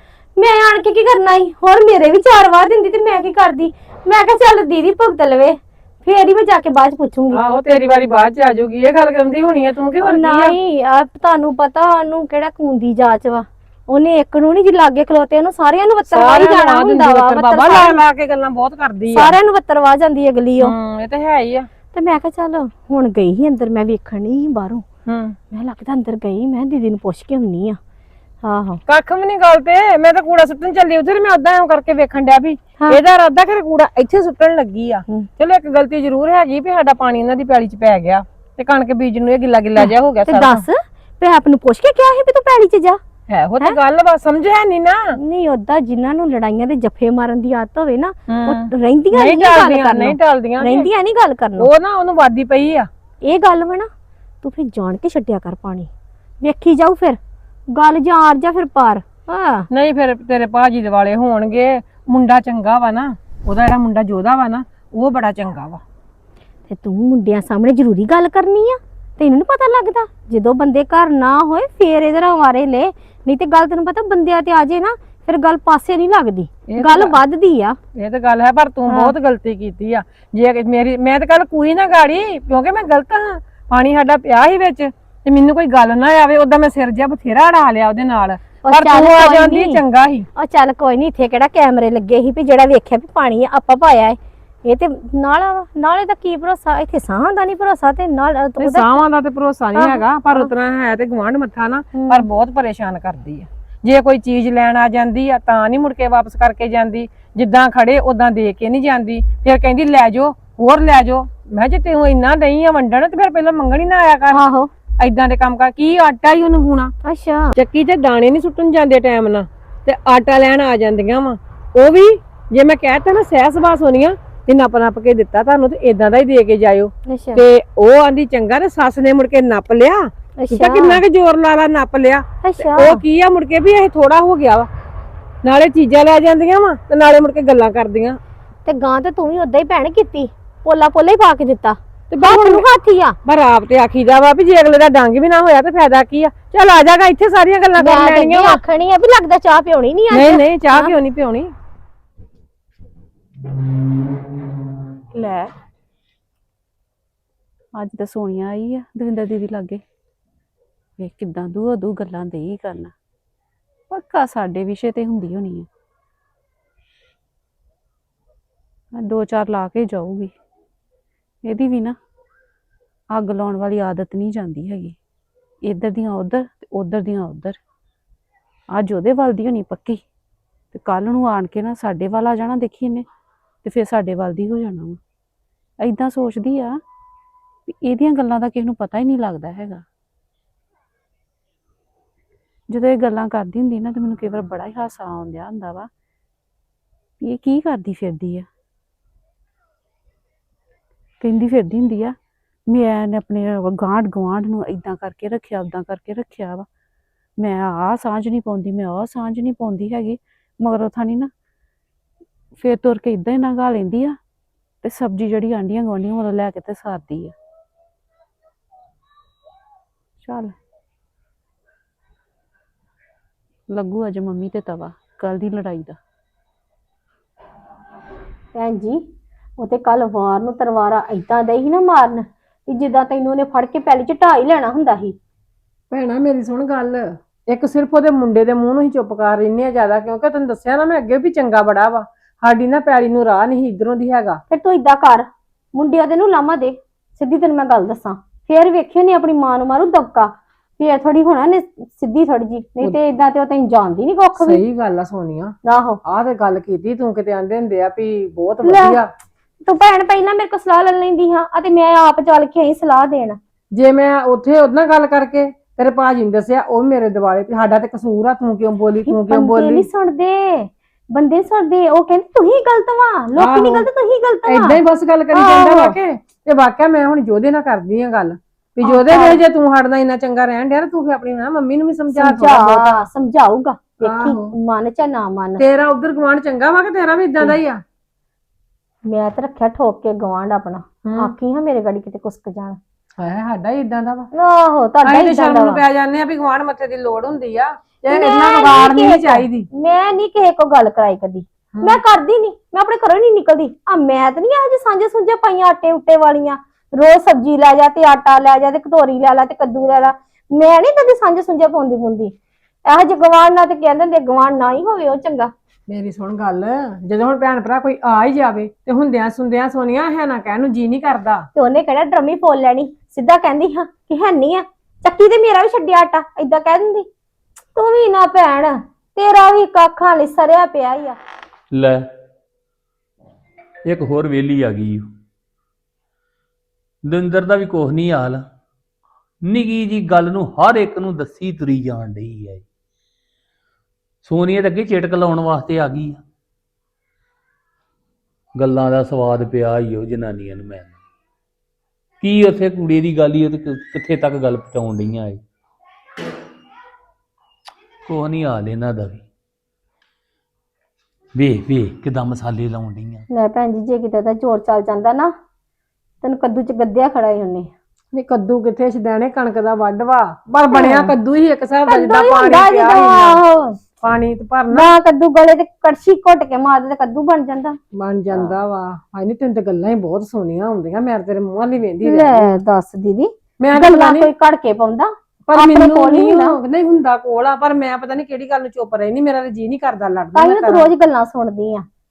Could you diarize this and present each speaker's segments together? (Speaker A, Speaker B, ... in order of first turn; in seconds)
Speaker A: 0.4-7.4, 10.0-18.0, 19.1-20.8, 21.9-24.8, 25.5-27.8, 28.4-28.8, 39.8-43.0, 45.2-51.7, 53.2-53.9, 54.4-55.9, 56.4-57.2, 57.7-59.7, 66.7-77.8, 78.9-79.1, 88.6-89.8, 90.3-98.9, 99.7-100.5, 101.9-102.2, 114.3-114.7, 117.0-117.5, 127.1-127.4, 130.4-131.0, 132.4-133.0, 138.6-143.2, 147.8-151.0, 228.5-229.0, 229.6-235.2, 244.5-254.6, 255.6-256.0, 258.6-259.0, 259.6-263.4, 269.0-274.8, 275.3-275.9, 278.8-279.4, 282.1-285.6, 289.1-292.8, 294.3-295.8, 298.1-312.3, 312.8-315.5, 321.5-327.1, 327.7-331.2, 363.3-365.3, 366.2-367.7, 370.7-371.1, 371.9-373.8, 374.7-377.8, 382.0-386.6, 390.3-391.9
Speaker B: 7.3-10.5, 16.0-19.4, 20.6-21.7, 25.1-25.4, 28.9-40.6, 43.3-45.2, 48.3-50.9, 51.6-52.9, 59.7-65.8, 76.7-77.2, 77.9-90.3, 98.6-114.4, 115.0-116.9, 117.5-134.7, 135.4-138.2, 142.1-142.7, 143.2-148.6, 150.1-151.5, 235.9-244.4, 254.4-259.1, 263.7-269.9, 273.4-273.9, 274.4-283.0, 284.0-284.5, 285.6-287.8, 291.0-291.3, 293.2-294.3, 295.0-299.7, 301.7-302.0, 315.9-321.5, 368.1-373.4, 374.0-374.9, 377.9-382.6, 383.6-384.3, 385.5-390.9
Speaker C: 155.1-155.5, 157.7-159.8, 161.0-162.9, 163.9-165.7, 169.0-170.3, 171.4-171.9, 173.1-174.9, 175.6-177.6, 178.7-180.0, 180.7-183.0, 183.6-185.0, 185.8-186.8, 187.7-189.8, 192.7-195.9, 197.2-198.4, 201.2-202.1, 202.7-206.7, 207.4-211.3, 212.6-214.2, 214.8-217.3, 220.2-220.5, 223.7-226.0
Speaker D: 331.7-332.0, 333.9-335.0, 337.1-338.4, 339.4-342.6, 344.2-346.2, 348.6-350.9, 352.2-355.4, 358.1-359.2, 361.4-363.2